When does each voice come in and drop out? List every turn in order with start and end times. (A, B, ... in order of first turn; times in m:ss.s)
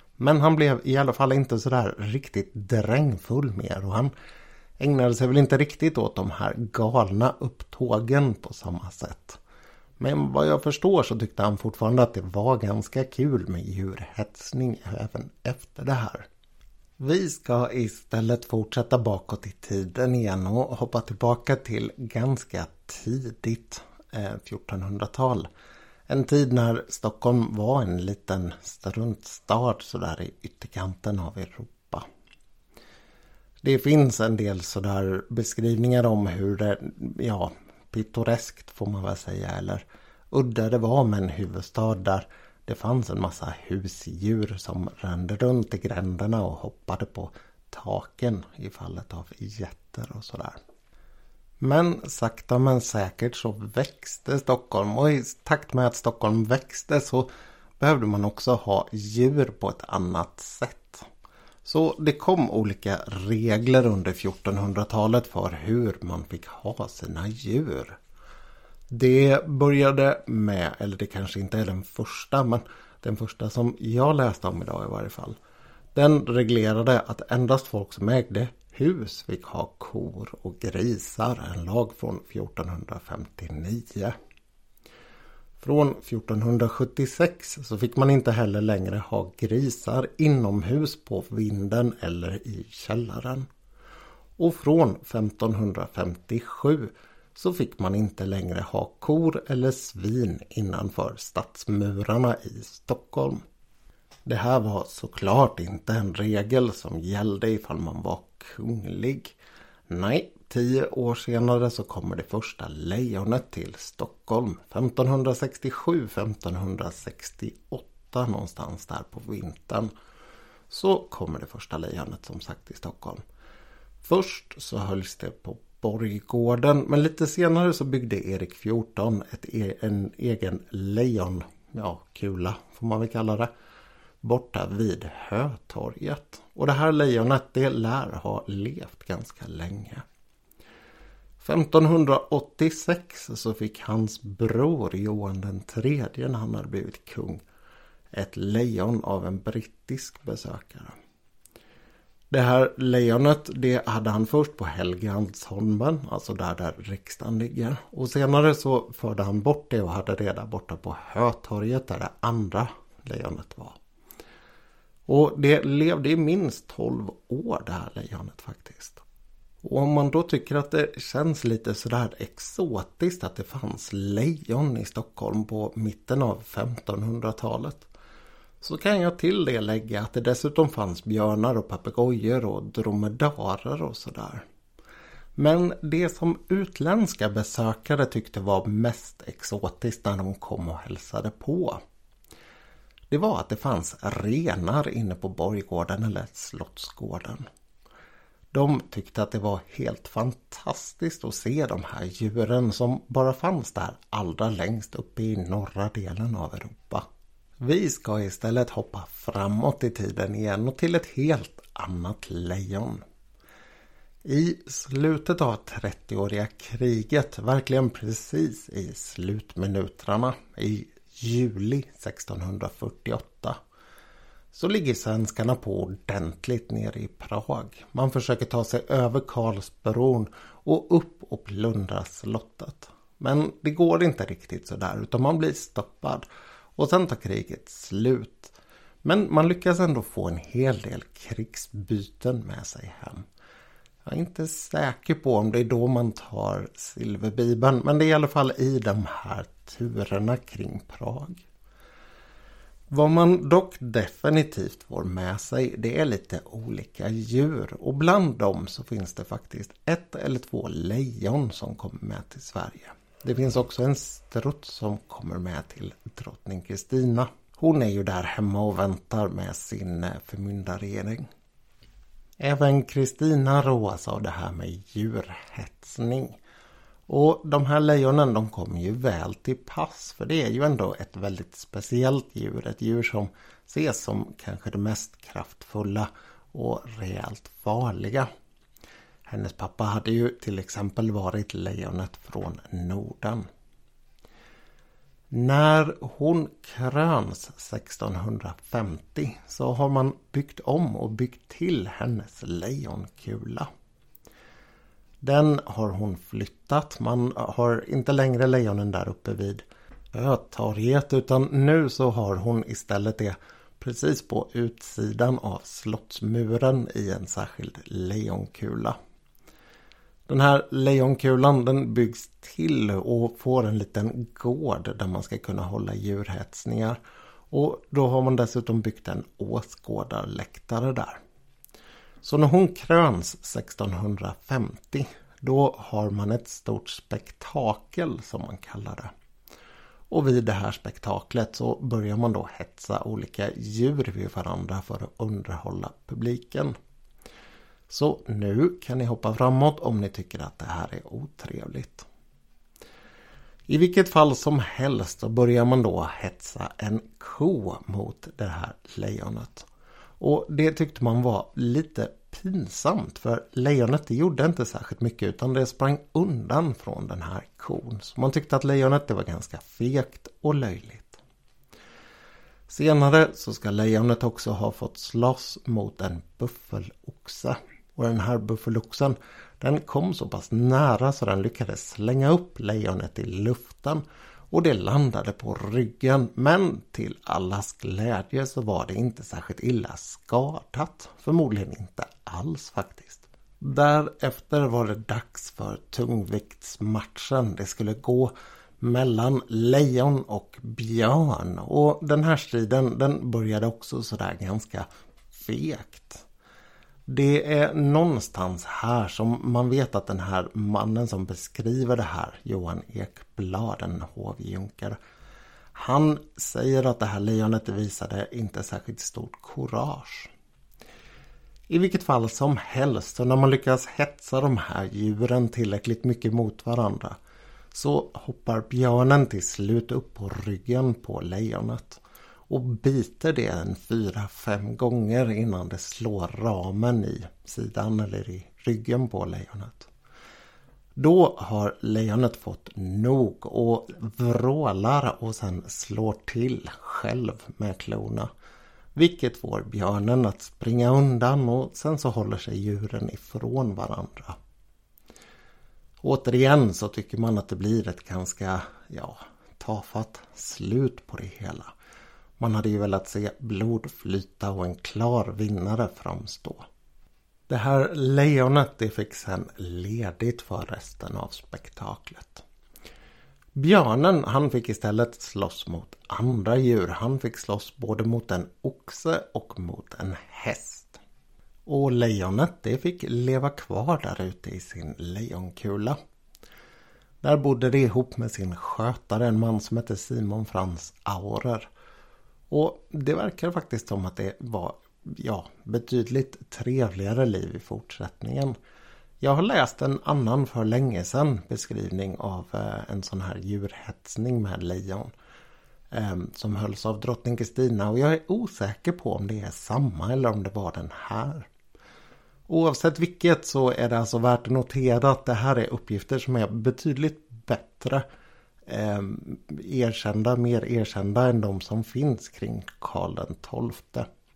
0:00.2-0:04.1 A
0:04.8-0:09.4 A
0:10.0-0:16.3 A
0:17.0-0:25.5 A
0:26.1-0:32.1 A
0:33.6-0:50.6 A
0:51.6-0:57.3 A
0:57.8-1:01.1 A
1:01.6-1:08.0 A
1:08.9-1:15.4 A
1:16.0-1:24.2 A
1:25.6-1:33.5 A
1:34.4-1:43.4 A
1:44.3-1:49.4 A
1:49.9-1:59.9 A
2:00.7-2:03.2 A
2:04.0-2:13.5 A
2:14.2-2:20.0 A
2:21.4-2:27.4 A
2:28.1-2:31.0 A
2:32.3-2:43.8 A
2:45.1-2:49.0 A
2:49.6-2:57.9 A
2:58.6-3:04.4 A
3:05.4-3:11.8 A
3:13.1-3:17.5 A
3:18.5-3:27.0 A
3:27.6-3:33.0 A
3:34.2-3:43.6 A
3:44.5-4:03.3 A
4:04.0-4:11.4 A
4:12.9-4:31.3 A
4:32.4-4:36.4 A
4:37.1-4:48.3 A
4:49.3-4:53.5 A
4:55.3-5:03.7 A
5:05.2-5:19.0 A
5:20.3-5:27.0 A
5:27.5-5:31.2 A
5:32.2-5:39.1 A
5:40.1-5:46.8 A
5:47.9-5:52.1 A
5:53.7-5:59.7 A
6:00.2-6:11.2 A
6:12.7-6:46.2 A
6:47.1-6:55.0 A
6:55.8-7:00.3 A
7:01.7-7:07.2 A
7:07.7-7:19.9 A
7:21.0-7:28.3 A
7:29.0-7:34.4 A
7:36.0-7:41.7 A
7:42.4-7:46.7 A
7:47.5-7:52.4 A
7:53.6-8:01.0 A
8:01.7-8:06.0 A
8:07.2-8:11.7 A
8:12.5-8:18.5 A
8:19.2-8:25.1 A
8:25.9-8:31.5 A
8:32.5-8:38.0 A
8:38.7-8:44.1 A